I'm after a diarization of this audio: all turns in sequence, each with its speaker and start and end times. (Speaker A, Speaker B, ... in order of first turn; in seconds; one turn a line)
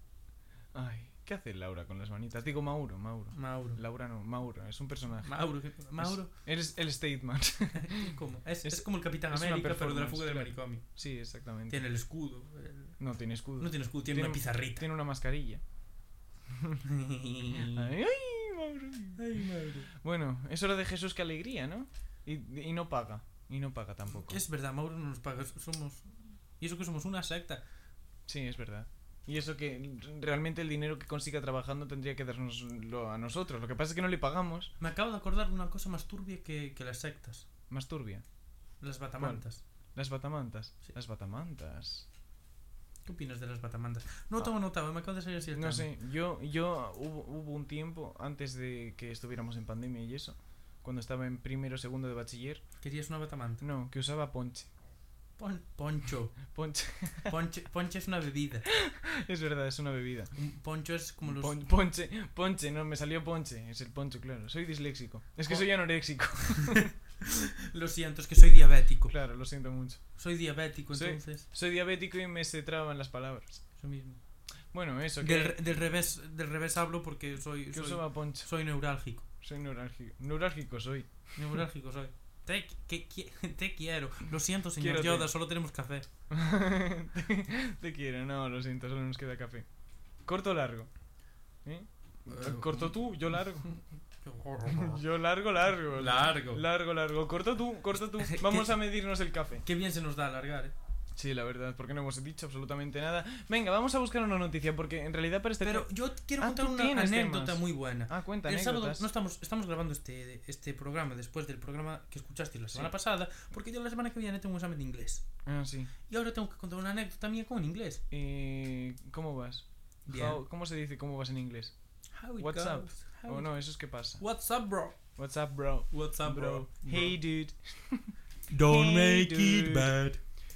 Speaker A: 0.7-5.4
Speaker B: 3.3-3.8
Speaker B: 5.2-6.3
Speaker A: 6.0-11.8
Speaker B: 7.7-10.9
Speaker B: 11.7-13.0
Speaker A: 13.0-15.6
Speaker B: 13.6-14.8
Speaker A: 16.5-16.8
Speaker B: 16.8-17.9
Speaker A: 17.5-24.4
Speaker B: 19.2-19.9
Speaker B: 24.1-26.1
Speaker B: 26.6-27.6
Speaker A: 28.3-34.7
Speaker B: 34.8-37.5
Speaker A: 37.7-38.2
Speaker B: 38.8-39.6
Speaker A: 39.2-39.4
Speaker A: 39.9-42.1
Speaker B: 43.0-45.9
Speaker A: 45.5-52.6
Speaker B: 52.8-53.6
Speaker A: 53.6-54.7
Speaker B: 55.4-56.4
Speaker A: 56.5-57.3
Speaker B: 57.2-58.7
Speaker A: 58.7-60.3
Speaker B: 60.4-61.6
Speaker A: 61.2-66.9
Speaker B: 66.7-69.1
Speaker A: 69.1-70.0
Speaker B: 70.2-71.5
Speaker A: 70.9-73.6
Speaker B: 73.8-74.2
Speaker A: 74.7-75.6
Speaker B: 75.2-79.2
Speaker A: 77.7-78.5
Speaker A: 79.4-81.6
Speaker B: 81.3-86.0
Speaker A: 84.8-85.3
Speaker A: 86.3-89.7
Speaker A: 90.2-90.9
Speaker A: 91.6-93.7
Speaker B: 92.3-92.9
Speaker B: 93.6-95.0
Speaker A: 94.7-99.6
Speaker B: 95.9-96.6
Speaker B: 98.2-98.7
Speaker B: 99.6-100.7
Speaker A: 101.1-109.0
Speaker B: 105.6-115.2
Speaker A: 115.4-115.9
Speaker B: 116.1-118.0
Speaker A: 118.1-121.7
Speaker B: 120.1-120.4
Speaker B: 122.1-123.5
Speaker A: 122.4-124.2
Speaker B: 124.2-125.0
Speaker A: 125.2-128.1
Speaker B: 125.9-127.2
Speaker B: 128.5-130.2
Speaker A: 128.7-129.9